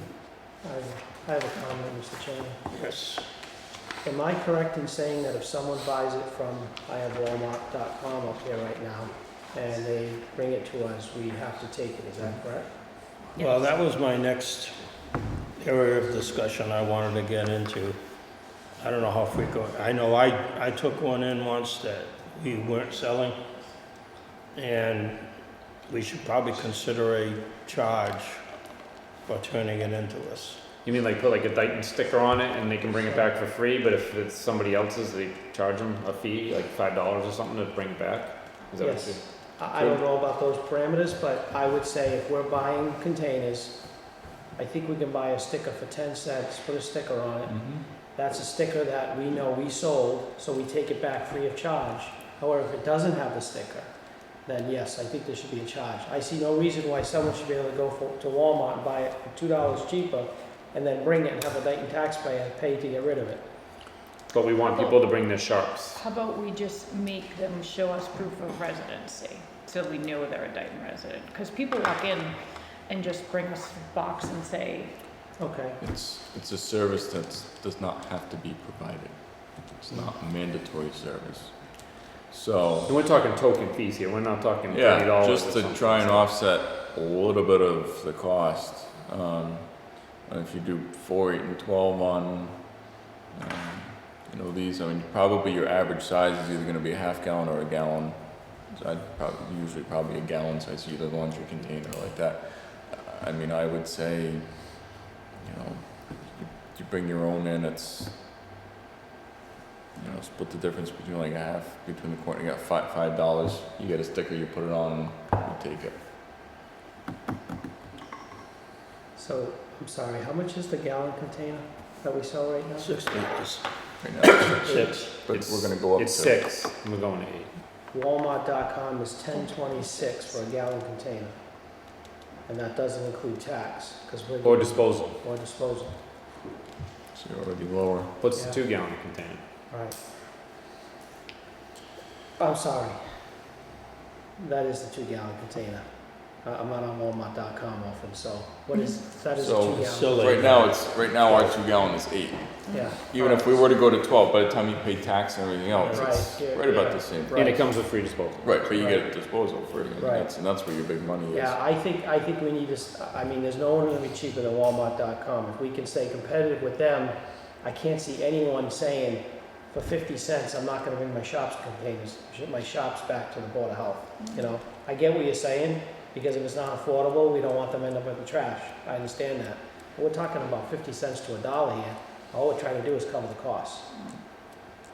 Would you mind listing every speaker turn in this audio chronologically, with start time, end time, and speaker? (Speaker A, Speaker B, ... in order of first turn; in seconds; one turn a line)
Speaker A: 0.6-2.6
Speaker B: 2.7-3.3
Speaker A: 4.0-12.7
Speaker C: 13.4-13.7
Speaker B: 13.4-14.8
Speaker B: 15.6-18.0
Speaker B: 18.8-23.4
Speaker B: 24.5-25.3
Speaker B: 25.9-28.4
Speaker B: 29.2-30.6
Speaker D: 30.8-40.0
Speaker A: 38.8-44.0
Speaker A: 44.5-53.9
Speaker E: 47.5-47.8
Speaker A: 54.5-63.5
Speaker D: 64.3-66.0
Speaker C: 64.6-65.0
Speaker C: 66.0-75.0
Speaker A: 75.4-75.8
Speaker E: 75.8-83.0
Speaker D: 82.8-86.4
Speaker E: 84.7-108.2
Speaker E: 110.0-116.0
Speaker A: 119.2-123.0
Speaker B: 122.8-123.8
Speaker E: 124.0-126.4
Speaker B: 124.5-125.1
Speaker A: 124.6-125.0
Speaker D: 125.3-127.5
Speaker A: 127.9-131.4
Speaker C: 129.4-130.4
Speaker A: 132.5-136.0
Speaker D: 134.4-135.2
Speaker E: 137.1-138.2
Speaker D: 138.2-139.4
Speaker A: 139.7-140.0
Speaker A: 142.4-143.0
Speaker A: 144.4-150.6
Speaker C: 148.7-149.0
Speaker E: 149.3-157.8
Speaker B: 149.9-150.7
Speaker A: 152.7-153.6
Speaker A: 155.9-157.7
Speaker D: 157.3-158.8
Speaker E: 158.4-161.6
Speaker A: 158.7-159.1
Speaker A: 160.0-160.3
Speaker A: 161.3-183.9
Speaker C: 174.2-174.5